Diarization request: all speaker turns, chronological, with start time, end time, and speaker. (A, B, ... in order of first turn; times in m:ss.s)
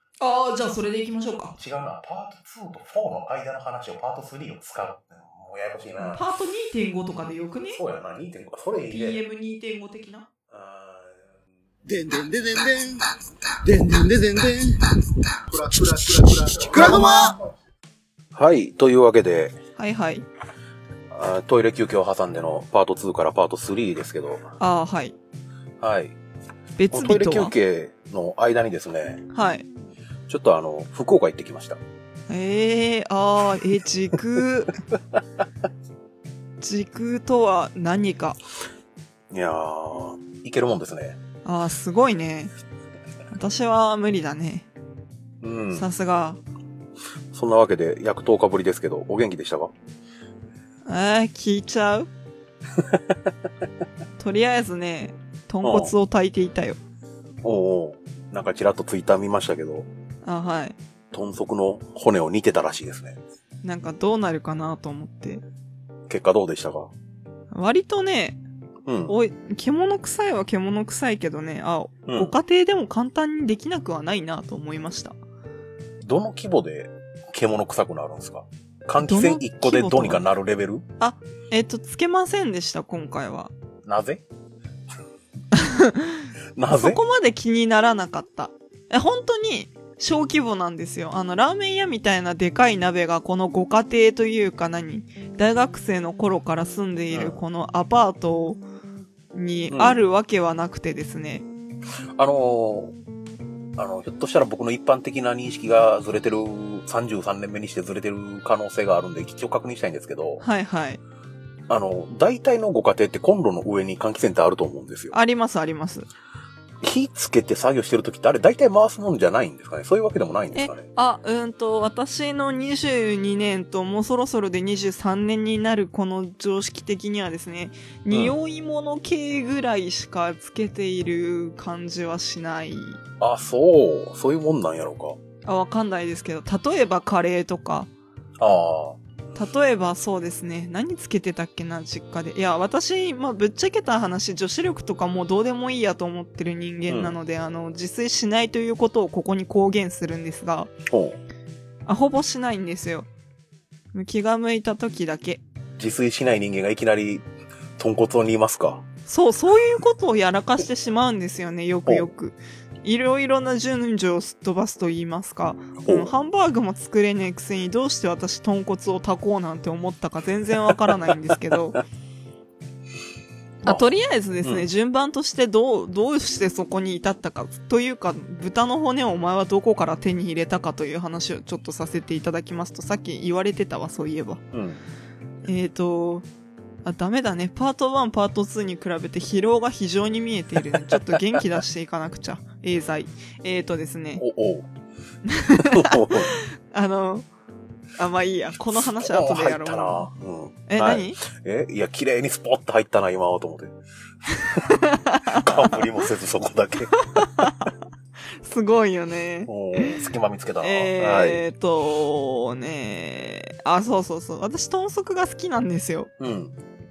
0:00.2-0:01.6 A
0:01.6-0:06.2 B
0:06.1-0:07.8 A
0:07.7-0:09.2 B
0:08.9-0:10.3 A
0:10.5-0:11.2 B
0:11.8-0:13.0 C
0:13.6-0:14.8 C
0:15.5-0:17.4 C
0:18.3-0:19.6 B
0:19.8-0:20.2 A
0:21.1-0:24.4 B
0:24.6-0:25.2 A
0:25.8-0:26.2 B
0:26.8-0:27.5 A
0:26.9-0:29.2 B
0:29.3-0:29.6 A
0:30.3-0:31.8 B
0:32.3-0:34.8 A
0:36.6-0:38.4 A
0:39.3-0:41.2 B
0:41.4-0:42.5 A
0:43.3-0:44.7 A
0:45.4-0:45.8 B
0:45.7-0:46.4 A
0:47.3-0:49.7 B
0:50.8-0:52.1 A
0:52.8-0:53.1 B
0:54.2-0:56.8 A
0:55.6-0:55.9 B
0:57.4-0:59.9 B
1:00.2-1:00.8 A
1:01.1-1:03.2 B
1:03.6-1:05.4 A
1:06.1-1:06.9 B
1:07.5-1:08.4 A
1:08.8-1:09.1 B
1:09.1-1:15.2 A
1:12.1-1:12.3 B
1:16.0-1:20.8 B
1:19.0-1:20.2 A
1:21.0-1:23.5 A
1:23.8-1:24.2 B
1:25.5-1:38.6 A
1:26.6-1:27.0 B
1:37.1-1:37.4 B
1:39.3-1:41.4 A
1:39.7-1:40.0 B
1:42.2-1:42.9 B
1:43.8-1:50.4 B
1:50.4-1:51.0 A
1:51.7-1:55.2 B
1:55.1-1:56.1 A
1:56.8-2:00.9 B
2:00.5-2:13.0 A
2:08.1-2:08.4 B
2:13.2-2:15.2 B
2:15.4-2:17.9 A
2:18.4-2:19.0 B
2:19.4-2:30.7 A
2:26.9-2:27.2 B
2:30.9-2:31.2 B
2:31.8-2:33.1 A
2:33.9-2:35.4 A
2:35.8-2:37.2 B
2:37.8-2:38.8 B
2:39.1-2:51.8 A
2:45.8-2:46.1 B
2:53.6-3:04.4 A
2:54.4-2:54.7 B
3:04.5-3:04.8 B
3:05.4-3:06.2 A
3:06.8-3:14.2 A
3:14.2-3:14.7 B
3:15.2-3:17.3 A
3:15.6-3:16.4 B
3:18.0-3:20.1 A
3:18.7-3:23.7 B
3:20.7-3:21.2 A
3:24.4-3:25.8 A
3:24.5-3:27.5 B
3:27.1-3:27.7 A
3:28.3-3:30.0 A
3:29.4-3:31.4 B
3:30.6-3:36.1 A
3:36.2-3:36.5 B